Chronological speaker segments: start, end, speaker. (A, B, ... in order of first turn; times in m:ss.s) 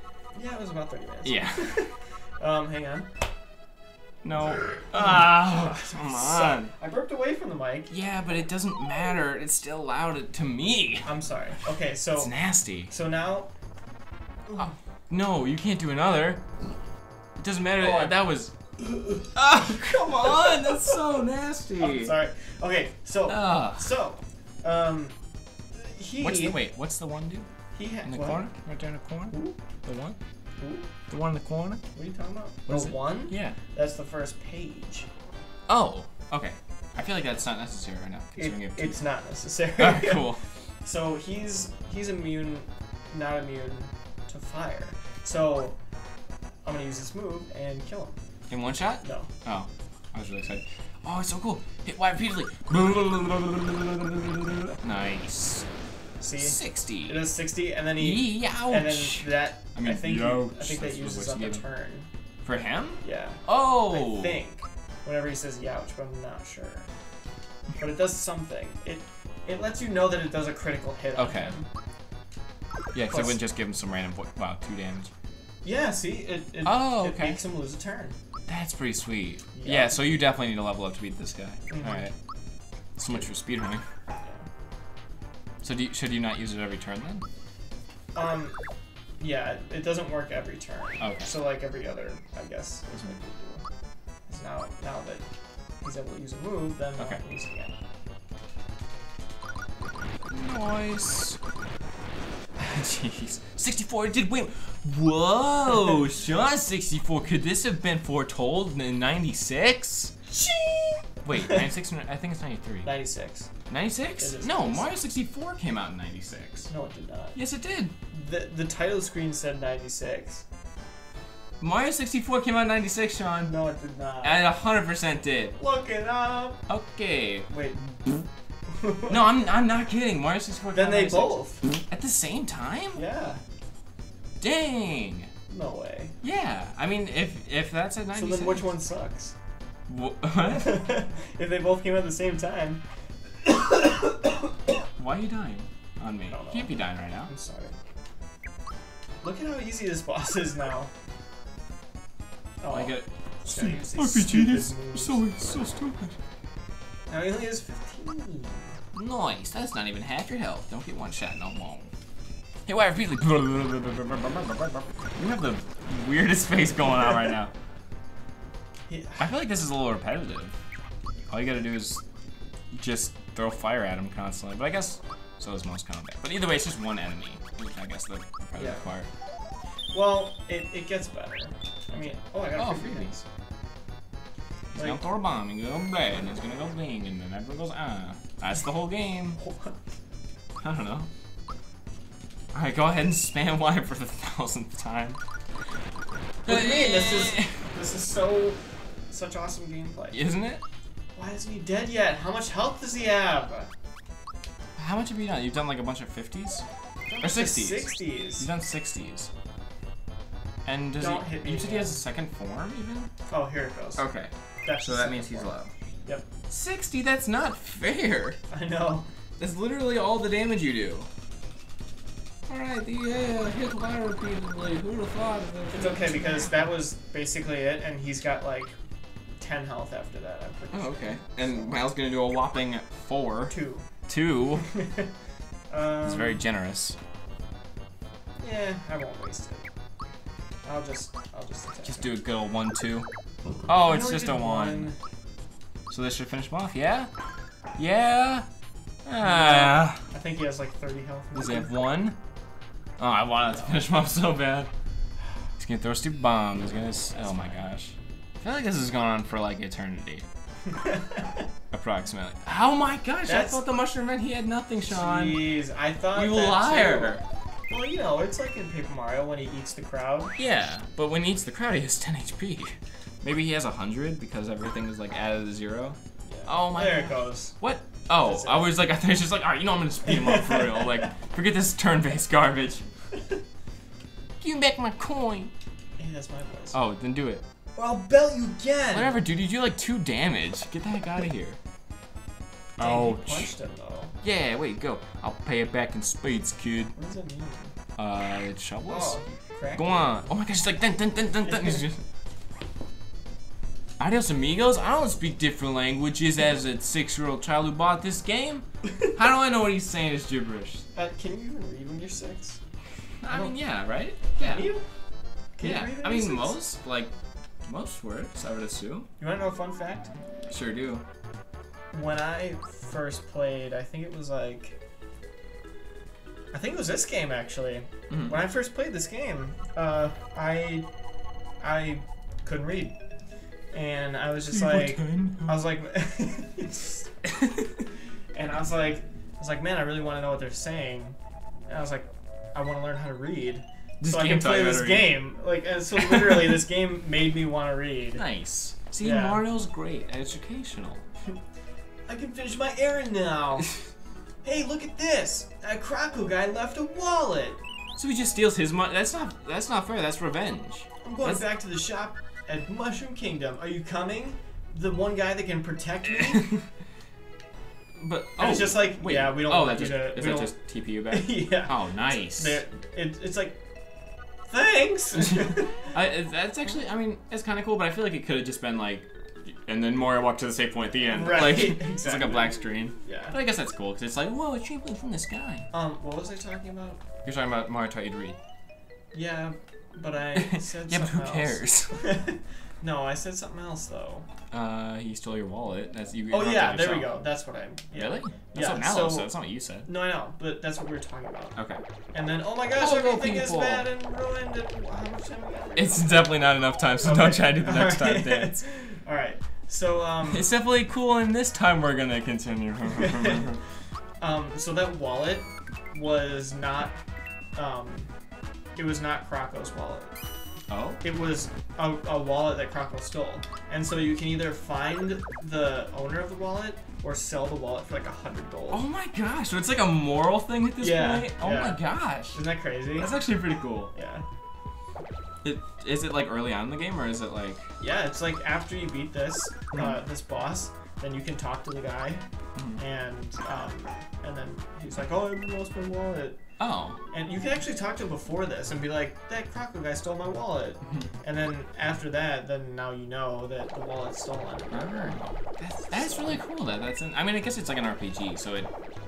0:00.3-0:03.1 A
0:01.2-0:01.9 B
0:04.2-0:06.7 B
0:04.5-0:07.9 A
0:07.9-0:11.1 B
0:11.0-0:13.5 A
0:12.2-0:12.9 B
0:14.5-0:14.8 A
0:14.6-0:16.4 B
0:17.4-0:18.5 B
0:17.8-0:18.1 A
0:18.8-0:21.0 A
0:19.3-0:22.1 B
0:21.8-0:25.1 A
0:23.3-0:23.8 B
0:25.7-0:26.6 A
0:26.2-0:27.5 B
0:27.7-0:28.5 A
0:28.0-0:30.2 B
0:29.3-0:29.6 A
0:30.6-0:30.9 A
0:31.1-0:31.8 B
0:31.9-0:35.1 A
0:32.7-0:33.6 B
0:35.7-0:39.0 B
0:38.4-0:40.3 A
0:39.8-0:40.4 B
0:40.8-0:45.8 A
0:46.6-0:48.2 A
0:48.5-0:55.6 B
0:49.0-0:49.3 A
0:56.2-1:02.1 A
0:56.4-0:57.2 B
0:58.0-1:01.6 B
1:02.4-1:04.4 B
1:03.0-1:06.9 A
1:07.8-1:11.7 A
1:11.2-1:11.5 B
1:12.9-1:15.1 B
1:13.1-1:13.4 A
1:15.6-1:18.1 A
1:16.6-1:17.4 B
1:18.5-1:22.1 B
1:19.5-1:20.1 A
1:21.7-1:22.1 A
1:23.0-1:23.8 B
1:25.6-1:27.2 B
1:28.1-1:28.6 A
1:29.2-1:33.6 A
1:31.0-1:31.3 B
1:34.3-1:35.2 A
1:35.8-1:37.7 A
1:37.0-1:37.2 B
1:40.3-1:41.4 B
1:42.6-1:50.1 B
1:50.3-1:51.7 A
1:51.2-1:52.9 B
1:52.8-1:53.5 A
1:53.7-1:56.7 B
1:54.2-1:54.9 A
1:56.7-1:57.4 A
1:57.3-1:57.9 B
1:58.1-2:00.4 A
2:01.6-2:03.5 B
2:03.4-2:04.4 A
2:04.2-2:05.6 B
2:05.6-2:06.6 A
2:06.7-2:07.5 B
2:07.5-2:07.8 A
2:08.7-2:09.2 A
2:09.1-2:11.4 B
2:10.7-2:11.8 A
2:11.9-2:13.0 B
2:12.9-2:13.4 A
2:14.4-2:15.3 B
2:15.5-2:16.2 A
2:16.2-2:18.7 B
2:18.1-2:19.3 A
2:19.9-2:20.8 B
2:20.4-2:22.8 A
2:23.4-2:24.3 A
2:25.0-2:27.3 B
2:26.3-2:27.7 A
2:29.2-2:30.9 A
2:32.6-2:35.6 A
2:32.7-2:36.2 B
2:37.1-2:38.8 A
2:38.9-2:41.9 B
2:42.7-2:47.5 B
2:48.9-2:49.3 A
2:49.2-2:50.6 B
2:51.3-2:52.0 B
2:52.7-2:59.1 B
2:58.6-2:58.8 A
2:59.9-3:03.2 A
3:02.5-3:03.1 B
3:04.7-3:09.4 B
3:04.7-3:05.0 A
3:09.4-3:09.8 A
3:10.6-3:11.1 B
3:12.5-3:15.2 B
3:16.4-3:20.2 A
3:16.4-3:17.5 B
3:20.1-3:20.6 B
3:21.2-3:23.7 A
3:24.8-3:26.6 B
3:27.1-3:28.5 A
3:27.2-3:29.3 B
3:30.6-3:33.1 B
3:31.0-3:32.0 A
3:33.3-3:34.0 A
3:34.0-3:35.7 B
3:34.6-3:36.2 A
3:36.5-3:38.4 B
3:38.5-3:39.1 A
3:39.4-3:41.1 B
3:42.5-3:46.7 B
3:45.7-3:48.8 A
3:49.4-3:51.8 A
3:50.7-3:53.5 B
3:53.5-3:53.8 A
3:54.1-3:54.6 B
3:54.6-3:55.1 A
3:55.7-3:56.4 A
3:56.0-3:57.0 B
3:58.4-3:59.7 A
4:00.6-4:02.2 A
4:01.8-4:03.1 B
4:03.7-4:04.9 B
4:03.8-4:05.0 A
4:05.9-4:07.1 B
4:07.8-4:08.4 B
4:09.0-4:10.0 B
4:09.2-4:11.7 A
4:11.3-4:12.2 B
4:13.0-4:14.7 B
4:13.5-4:13.8 A
4:15.6-4:20.2 B
4:17.1-4:17.6 A
4:20.7-4:21.4 A
4:21.7-4:25.5 B
4:23.2-4:23.6 A
4:24.9-4:27.2 A
4:26.1-4:27.2 B
4:27.7-4:30.4 A
4:30.4-4:42.8 B
4:36.2-4:37.5 A
4:38.2-4:38.7 A
4:40.0-4:41.1 A
4:44.4-4:45.5 B
4:46.0-4:46.8 A
4:46.7-4:47.4 B
4:47.7-4:49.2 A
4:48.9-4:51.6 B
4:52.8-4:53.5 B
4:52.8-4:54.1 A
4:54.2-4:56.9 B
4:56.9-4:57.7 A
4:58.0-4:59.2 B
4:58.9-5:00.2 A
4:59.7-5:02.0 B
5:01.4-5:01.8 A
5:04.0-5:10.8 B
5:10.9-5:12.6 A
5:13.2-5:14.7 B
5:13.3-5:13.5 A
5:14.4-5:14.8 A
5:15.6-5:16.6 A
5:15.6-5:17.1 B
5:17.6-5:19.1 B
5:19.2-5:20.1 A
5:20.5-5:21.0 B
5:21.9-5:24.8 A
5:26.5-5:30.8 A
5:28.1-5:28.4 B
5:31.6-5:33.0 A
5:33.7-5:37.1 A
5:34.5-5:35.6 B
5:37.2-5:37.7 B
5:38.3-5:41.2 A
5:41.7-5:48.2 A
5:44.0-5:45.1 B
5:46.0-5:46.6 B
5:48.2-5:51.0 B
5:49.0-5:49.4 A
5:52.1-5:53.7 A
5:54.4-5:57.6 A
5:58.0-6:01.4 B
6:01.0-6:06.5 A
6:06.3-6:06.6 B
6:08.0-6:12.6 B
6:08.4-6:10.5 A
6:11.1-6:13.6 A
6:14.5-6:15.9 A
6:15.1-6:25.7 B
6:21.1-6:23.3 A
6:25.7-6:27.0 A
6:27.2-6:28.4 B
6:29.1-6:34.2 A
6:30.3-6:31.9 B
6:34.5-6:37.2 B
6:36.3-6:39.3 A
6:37.9-6:39.9 B
6:39.8-6:41.6 A
6:41.6-6:41.8 B
6:42.1-6:46.2 A
6:42.8-6:43.9 B
6:45.8-6:48.6 B
6:47.0-6:50.5 A
6:50.2-6:53.6 B
6:52.9-6:53.5 A
6:54.2-6:57.0 A
6:57.5-6:58.1 A
6:58.8-7:00.1 A
7:00.7-7:01.0 B
7:01.0-7:08.8 A
7:08.7-7:12.4 B
7:10.8-7:13.1 A
7:13.0-7:13.9 B
7:13.9-7:14.2 A
7:15.4-7:17.6 B
7:17.8-7:22.2 A
7:19.7-7:20.0 B
7:22.6-7:22.8 B
7:22.8-7:26.4 A
7:26.6-7:27.0 B
7:27.1-7:36.4 A
7:34.7-7:38.7 B